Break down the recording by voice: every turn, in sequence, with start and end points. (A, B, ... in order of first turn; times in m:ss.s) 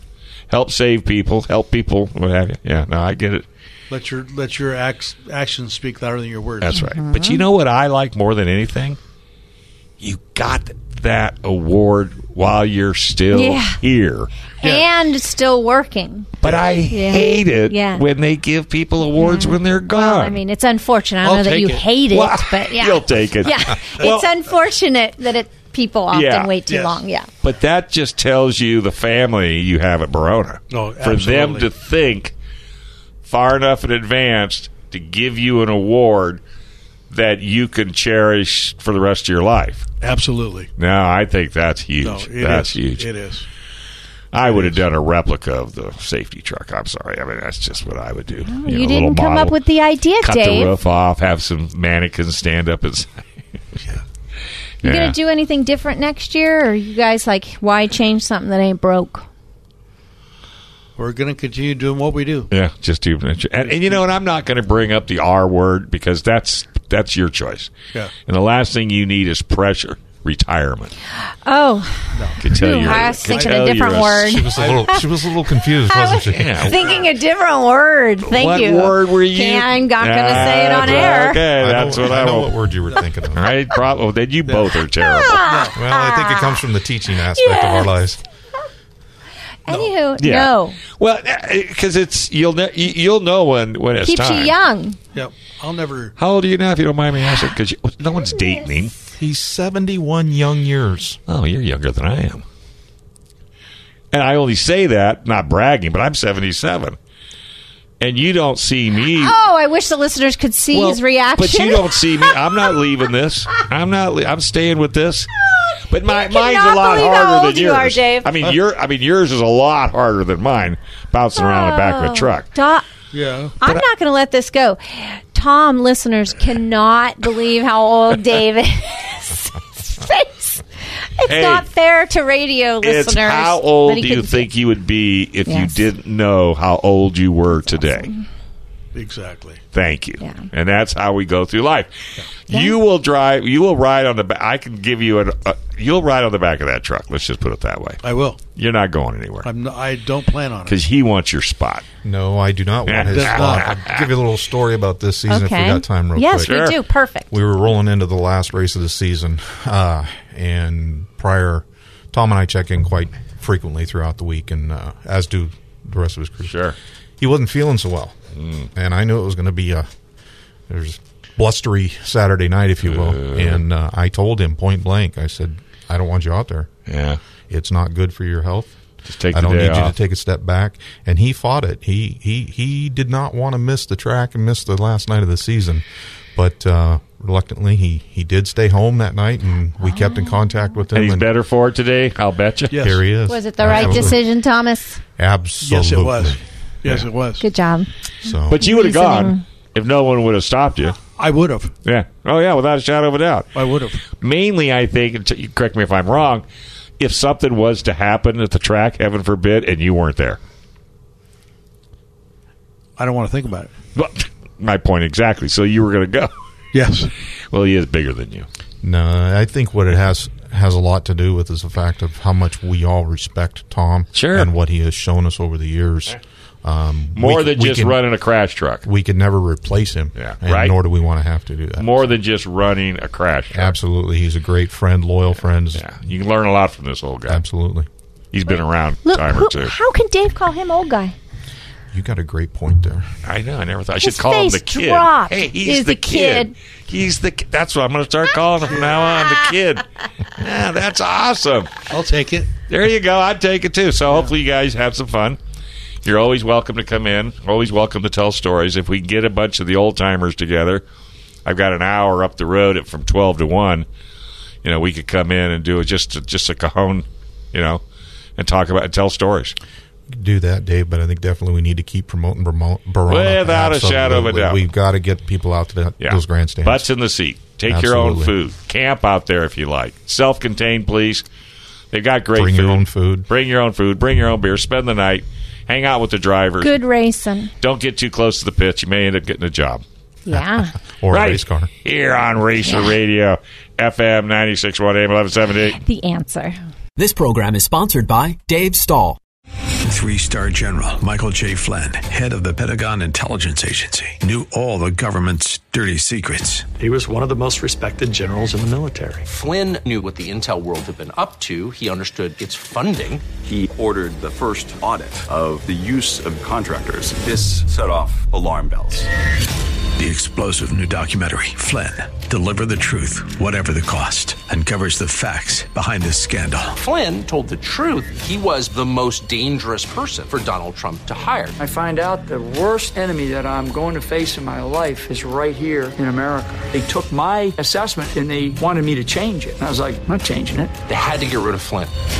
0:00.5-0:03.4 A
0:03.9-0:06.8 B
0:06.6-0:09.0 A
0:06.8-0:07.4 C
0:10.0-0:14.3 A
0:13.3-0:13.8 C
0:14.6-0:14.9 B
0:14.6-0:16.3 C
0:16.4-0:20.4 A
0:16.9-0:18.0 C
0:19.2-0:27.3 C
0:21.2-0:21.8 B
0:22.1-0:24.3 A
0:26.1-0:26.5 A
0:26.6-0:27.0 B
0:27.4-0:32.3 A
0:30.7-0:31.7 B
0:33.2-0:36.4 A
0:37.1-0:39.9 A
0:40.0-0:40.7 B
0:40.8-0:43.1 A
0:42.0-0:43.5 B
0:44.3-0:49.6 A
0:44.4-0:44.8 B
0:48.5-0:50.7 C
0:50.2-0:53.2 A
0:54.8-0:55.2 A
0:54.8-0:59.2 C
1:01.0-1:02.5 B
1:02.5-1:07.7 A
1:08.3-1:10.9 A
1:11.4-1:15.0 C
1:12.1-1:13.4 B
1:12.4-1:14.5 A
1:14.2-1:16.9 D
1:14.5-1:14.9 B
1:15.9-1:21.4 C
1:16.2-1:16.9 A
1:18.3-1:22.6 A
1:20.7-1:23.5 D
1:23.3-1:25.5 A
1:24.4-1:24.8 B
1:25.0-1:26.6 C
1:25.4-1:25.8 B
1:25.7-1:28.2 D
1:27.3-1:27.9 C
1:29.6-1:30.8 C
1:30.2-1:34.5 A
1:34.0-1:35.0 C
1:35.1-1:36.1 B
1:36.2-1:38.9 A
1:39.2-1:41.2 D
1:41.3-1:42.4 A
1:44.1-1:47.0 A
1:48.0-1:49.4 A
1:49.1-1:52.8 C
1:50.7-1:55.3 A
1:55.9-2:02.5 A
1:56.1-1:58.3 C
2:01.4-2:02.8 C
2:03.1-2:03.5 B
2:03.6-2:14.5 C
2:11.3-2:11.6 A
2:12.8-2:18.1 A
2:15.5-2:15.8 C
2:17.7-2:18.2 C
2:18.9-2:19.6 B
2:19.7-2:21.9 A
2:20.2-2:20.5 C
2:22.5-2:28.0 A
2:22.5-2:22.8 C
2:28.0-2:28.4 B
2:28.6-2:29.5 A
2:29.4-2:30.8 B
2:30.6-2:31.8 A
2:32.0-2:36.6 D
2:32.9-2:34.1 A
2:33.0-2:33.7 B
2:35.3-2:37.3 C
2:36.4-2:36.7 A
2:37.3-2:46.6 D
2:46.5-2:46.8 A
2:47.2-2:48.2 D
2:48.4-2:48.7 A
2:48.7-2:49.9 D
2:50.7-2:56.7 D
2:52.9-2:53.6 A
2:56.9-2:57.2 A
2:57.5-2:58.8 D
2:59.1-2:59.9 A
2:59.3-3:05.8 D
3:06.3-3:11.3 D
3:09.8-3:10.4 C
3:10.9-3:12.7 A
3:12.7-3:13.0 B
3:12.8-3:14.2 D
3:13.3-3:15.0 C
3:13.6-3:14.2 B
3:15.2-3:17.0 D
3:15.6-3:17.4 B
3:17.4-3:17.9 C
3:18.2-3:18.6 D
3:18.5-3:21.0 A
3:18.5-3:19.4 C
3:21.2-3:21.7 B
3:21.8-3:23.5 A
3:23.5-3:24.0 B
3:24.1-3:26.4 A
3:27.0-3:30.4 A
3:33.0-3:33.7 B
3:33.9-3:36.3 A
3:36.7-3:37.1 B
3:37.5-3:38.5 A
3:38.8-3:48.0 D
3:44.1-3:44.5 A
3:47.2-3:48.9 A
3:48.8-3:52.1 D
3:50.2-3:50.7 A
3:51.8-3:53.7 A
3:53.5-3:55.9 D
3:55.7-3:57.4 A
3:57.3-3:57.9 D
3:58.3-3:59.7 A
3:58.5-4:01.1 C
4:01.9-4:03.1 D
4:03.2-4:09.8 A
4:04.0-4:06.5 C
4:08.7-4:09.1 B
4:10.4-4:11.7 A
4:11.9-4:12.5 B
4:12.7-4:15.4 A
4:16.0-4:20.8 A
4:21.4-4:23.8 A
4:24.6-4:27.8 A
4:28.4-4:29.6 A
4:30.1-4:36.9 D
4:33.1-4:34.6 A
4:36.0-4:41.2 A
4:37.7-4:38.3 D
4:41.9-4:46.7 A
4:42.3-4:43.3 D
4:46.6-4:47.5 C
4:47.6-4:49.8 A
4:50.2-4:50.7 C
4:50.3-4:51.7 D
4:51.1-4:55.8 A
4:52.6-4:52.9 C
4:55.8-4:56.6 C
4:57.0-4:59.2 E
4:59.8-5:06.7 F
5:06.8-5:09.3 G
5:09.3-5:13.2 H
5:13.4-5:19.1 I
5:20.0-5:26.8 F
5:26.8-5:31.6 H
5:31.6-5:40.8 J
5:40.8-5:41.9 H